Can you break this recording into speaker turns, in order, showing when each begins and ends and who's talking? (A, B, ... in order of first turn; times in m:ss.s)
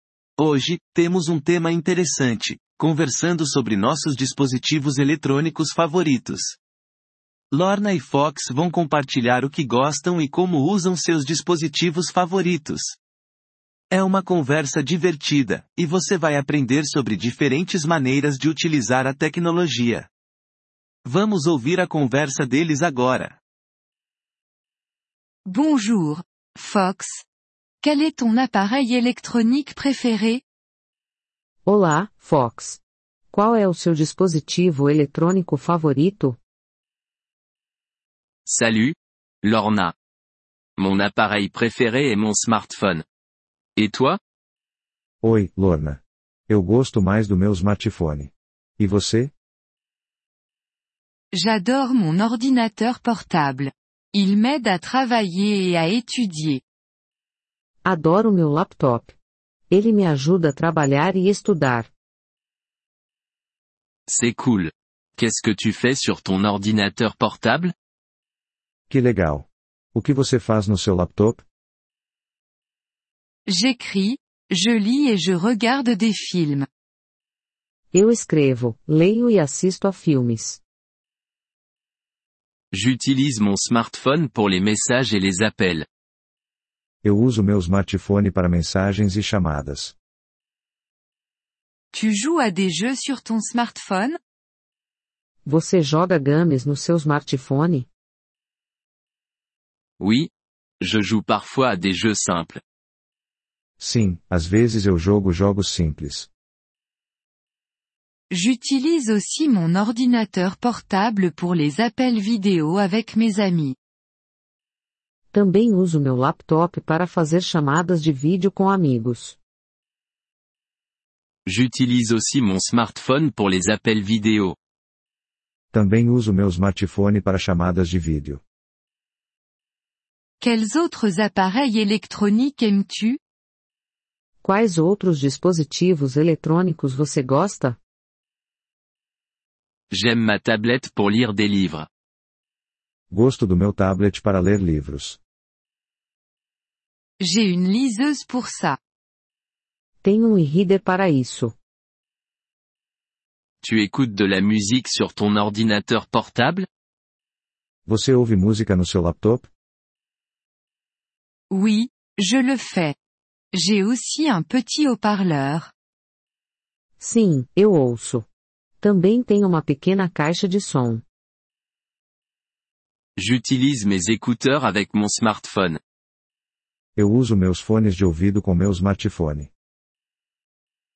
0:00.4-0:06.6 A
0:07.5-0:13.0 A
0:13.9-0:20.1 A
0:21.0-0:23.4 A
0:25.4-0:27.2 B
0:27.8-0:30.4 B
0:31.7-0:32.8 C
0:33.3-0:36.4 C
0:38.5-0:39.9 D
0:40.8-0:43.0 D
0:43.8-0:44.2 D
0:45.2-0:49.3 E
0:51.3-0:56.6 B
0:57.8-0:59.1 C
0:59.7-1:01.9 C
1:04.1-1:07.7 D
1:08.9-1:11.4 E
1:13.5-1:16.7 B
1:17.9-1:20.6 C
1:22.7-1:25.9 D
1:27.0-1:29.9 E
1:31.9-1:34.2 B
1:35.4-1:37.9 C
1:40.0-1:42.6 D
1:43.8-1:46.3 E
1:48.3-1:53.8 B
1:55.3-1:59.4 C
2:01.5-2:04.6 D
2:05.7-2:08.4 E
2:10.4-2:13.2 B
2:14.4-2:17.8 C
2:19.9-2:21.9 D
2:23.1-2:25.2 E
2:27.2-2:28.8 B
2:30.0-2:31.5 C
2:33.6-2:36.7 D
2:37.9-2:39.5 E
2:41.5-2:43.0 B
2:43.5-2:45.7 B
2:47.0-2:48.2 C
2:48.8-2:51.0 C
2:53.2-2:55.8 D
2:57.0-2:59.5 E